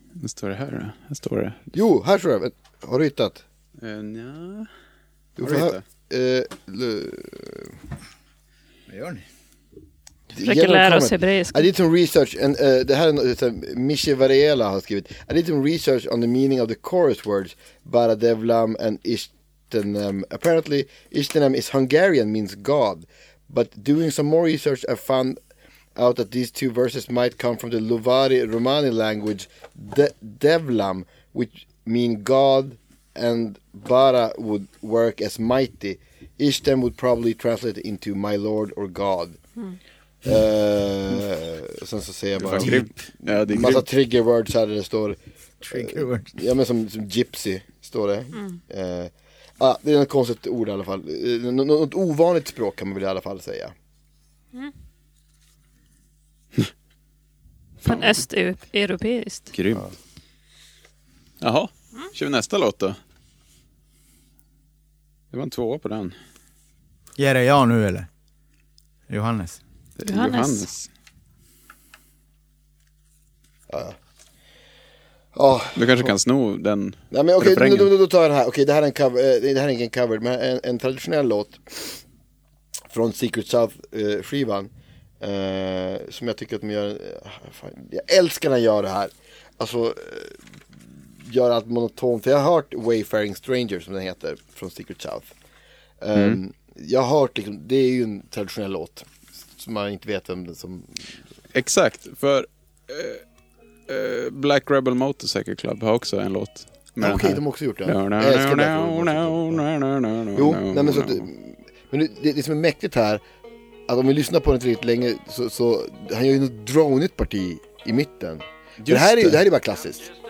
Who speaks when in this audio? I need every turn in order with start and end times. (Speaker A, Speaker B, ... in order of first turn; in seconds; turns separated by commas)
Speaker A: 0.2-1.7, Speaker B: 1.7-3.4, Speaker A: 3.8-4.7, Speaker B: 5.4-7.8, Speaker A: 5.4-5.8, Speaker C: 8.9-9.2, Speaker B: 10.3-25.4, Speaker D: 10.4-11.6, Speaker B: 26.0-39.4, Speaker B: 40.2-42.9, Speaker A: 42.4-43.9, Speaker B: 43.5-45.2, Speaker C: 45.6-46.4, Speaker B: 45.7-53.7, Speaker A: 57.8-58.2, Speaker D: 57.8-59.5, Speaker A: 59.5-59.9, Speaker A: 61.4-63.0, Speaker A: 65.3-66.2, Speaker C: 67.2-68.1, Speaker C: 69.1-69.6, Speaker A: 70.0-70.9, Speaker D: 70.1-70.7, Speaker B: 73.7-74.0, Speaker B: 75.3-76.1, Speaker A: 75.8-77.9, Speaker B: 77.1-82.0, Speaker B: 82.9-90.4, Speaker B: 91.2-95.3, Speaker B: 96.0-101.0, Speaker A: 96.2-96.4, Speaker A: 101.5-103.2, Speaker A: 103.9-111.3, Speaker B: 107.0-109.6, Speaker B: 110.3-113.2, Speaker B: 113.9-120.1, Speaker A: 118.8-119.4